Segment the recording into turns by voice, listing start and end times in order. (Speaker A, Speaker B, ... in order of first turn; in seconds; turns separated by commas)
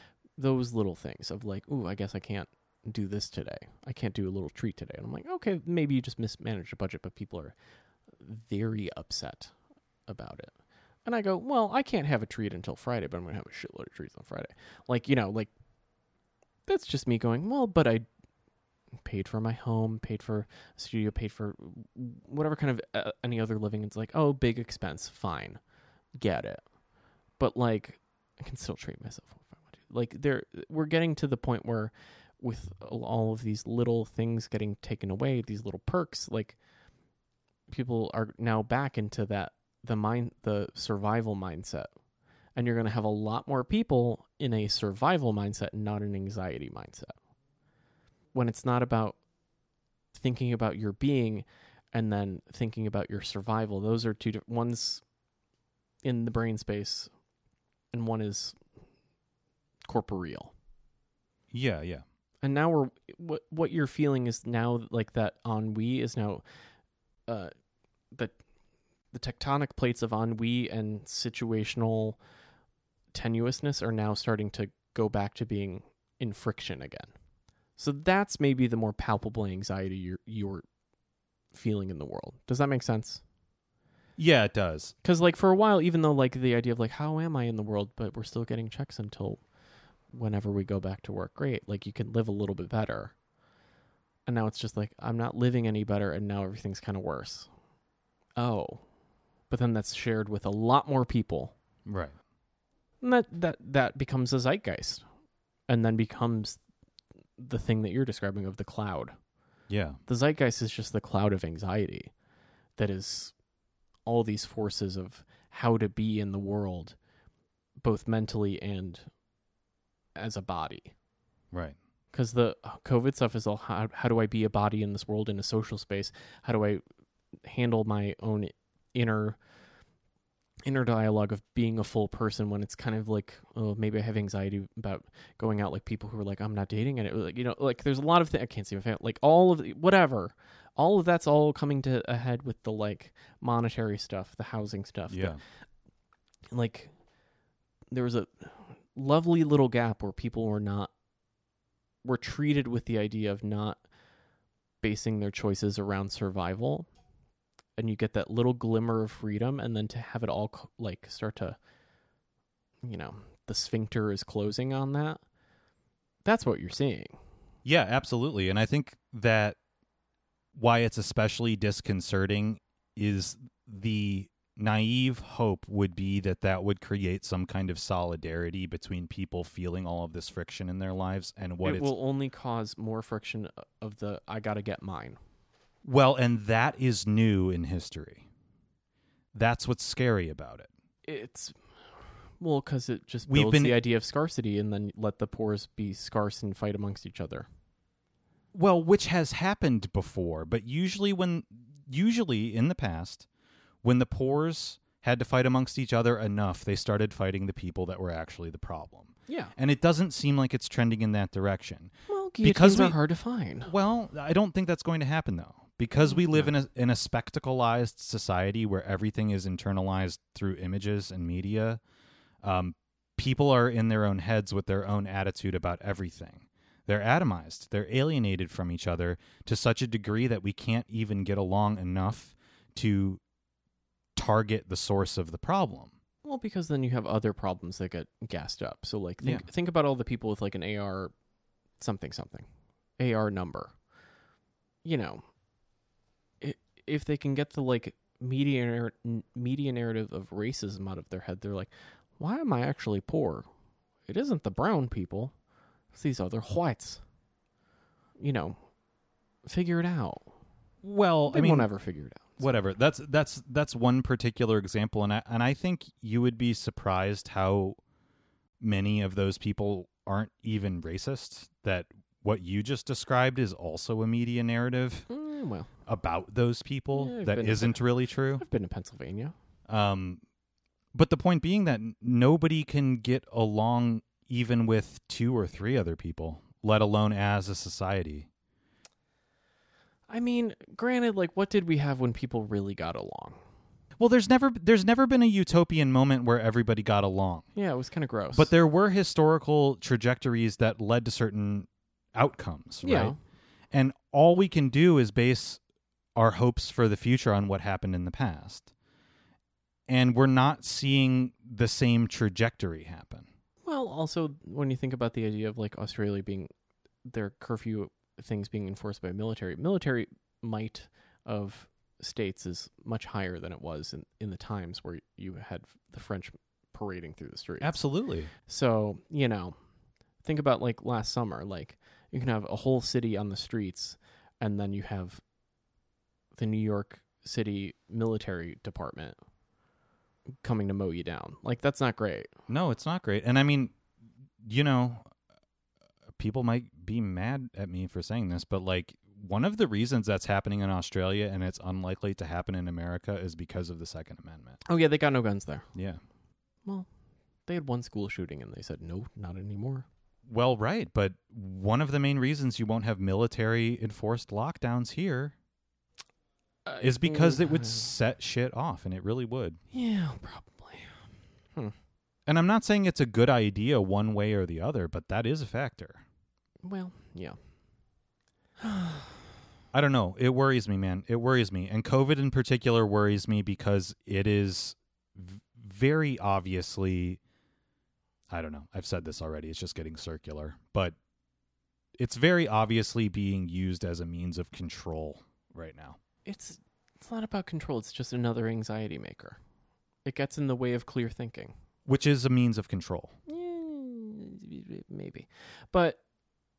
Speaker A: 0.4-7.5, Speaker A: 8.2-9.5, Speaker A: 10.1-10.5, Speaker A: 11.1-15.5, Speaker A: 16.7-18.1, Speaker A: 19.0-25.6, Speaker A: 26.2-26.6, Speaker A: 27.4-36.6, Speaker A: 37.7-41.9, Speaker A: 42.6-47.1, Speaker A: 48.3-49.2, Speaker A: 50.1-55.0, Speaker A: 56.0-57.1, Speaker A: 57.9-58.6, Speaker A: 59.9-60.5, Speaker B: 61.5-62.0, Speaker A: 62.4-66.4, Speaker A: 67.3-67.5, Speaker A: 69.1-72.2, Speaker A: 73.1-77.1, Speaker A: 77.8-80.6, Speaker A: 81.5-83.2, Speaker B: 84.2-84.9, Speaker A: 85.0-89.4, Speaker A: 90.1-93.1, Speaker A: 94.3-97.5, Speaker A: 98.4-98.8, Speaker A: 99.5-101.5, Speaker B: 101.9-102.2, Speaker A: 103.0-105.0, Speaker A: 105.7-106.6, Speaker A: 107.4-109.2, Speaker B: 109.7-110.0, Speaker A: 110.1-112.1, Speaker A: 112.8-113.3, Speaker A: 114.1-117.0, Speaker A: 117.8-119.1, Speaker A: 120.2-120.9, Speaker B: 121.5-121.8, Speaker A: 122.1-126.8, Speaker A: 127.4-129.4, Speaker A: 130.7-145.4, Speaker B: 145.1-145.4, Speaker A: 146.5-146.9, Speaker A: 147.9-150.9, Speaker A: 152.0-153.8, Speaker A: 154.8-156.9, Speaker A: 157.8-161.6, Speaker A: 162.8-165.2, Speaker A: 166.2-167.2, Speaker B: 167.7-169.6, Speaker B: 170.6-181.9, Speaker A: 181.6-185.2, Speaker B: 185.8-188.3, Speaker B: 189.3-190.7, Speaker A: 191.1-191.5, Speaker A: 192.4-197.5, Speaker B: 193.3-193.8, Speaker B: 198.5-203.3, Speaker B: 203.8-213.0, Speaker A: 209.3-209.5, Speaker A: 212.1-213.7, Speaker B: 213.7-221.8, Speaker A: 216.1-216.5, Speaker B: 222.4-233.2, Speaker B: 234.2-235.9, Speaker A: 236.2-241.1, Speaker A: 241.8-242.5, Speaker A: 243.0-243.7, Speaker A: 244.8-245.2, Speaker A: 246.4-253.5, Speaker A: 254.1-255.3, Speaker A: 255.9-257.0, Speaker A: 258.2-258.6, Speaker A: 259.4-260.3, Speaker B: 260.8-261.7, Speaker A: 261.3-262.6, Speaker B: 262.4-267.8, Speaker B: 268.6-275.1, Speaker A: 275.1-275.7, Speaker B: 275.9-278.4, Speaker A: 276.9-277.8, Speaker A: 278.4-279.3, Speaker B: 279.7-280.2, Speaker B: 280.9-288.3, Speaker A: 290.1-293.4, Speaker B: 294.0-297.5, Speaker A: 297.6-298.5, Speaker B: 298.3-303.1, Speaker A: 302.8-303.2, Speaker B: 303.7-305.6, Speaker B: 306.1-308.7, Speaker B: 309.9-313.3, Speaker A: 313.6-316.5, Speaker A: 317.1-327.8, Speaker B: 327.6-328.3, Speaker A: 328.4-329.6, Speaker A: 330.2-335.2, Speaker A: 336.4-339.2, Speaker A: 340.4-342.3, Speaker B: 342.5-343.7, Speaker B: 344.4-345.0, Speaker B: 346.2-354.6, Speaker A: 354.7-355.7, Speaker B: 355.8-356.0, Speaker A: 357.5-359.9, Speaker B: 360.3-365.4, Speaker A: 366.7-367.9, Speaker B: 366.8-369.6, Speaker A: 369.7-370.9, Speaker B: 372.3-376.0, Speaker A: 376.6-377.4, Speaker A: 378.6-379.2, Speaker B: 379.7-387.2, Speaker B: 388.3-391.0, Speaker B: 392.0-396.0, Speaker A: 396.3-399.4, Speaker A: 400.1-401.5, Speaker B: 401.9-403.1, Speaker A: 403.3-406.0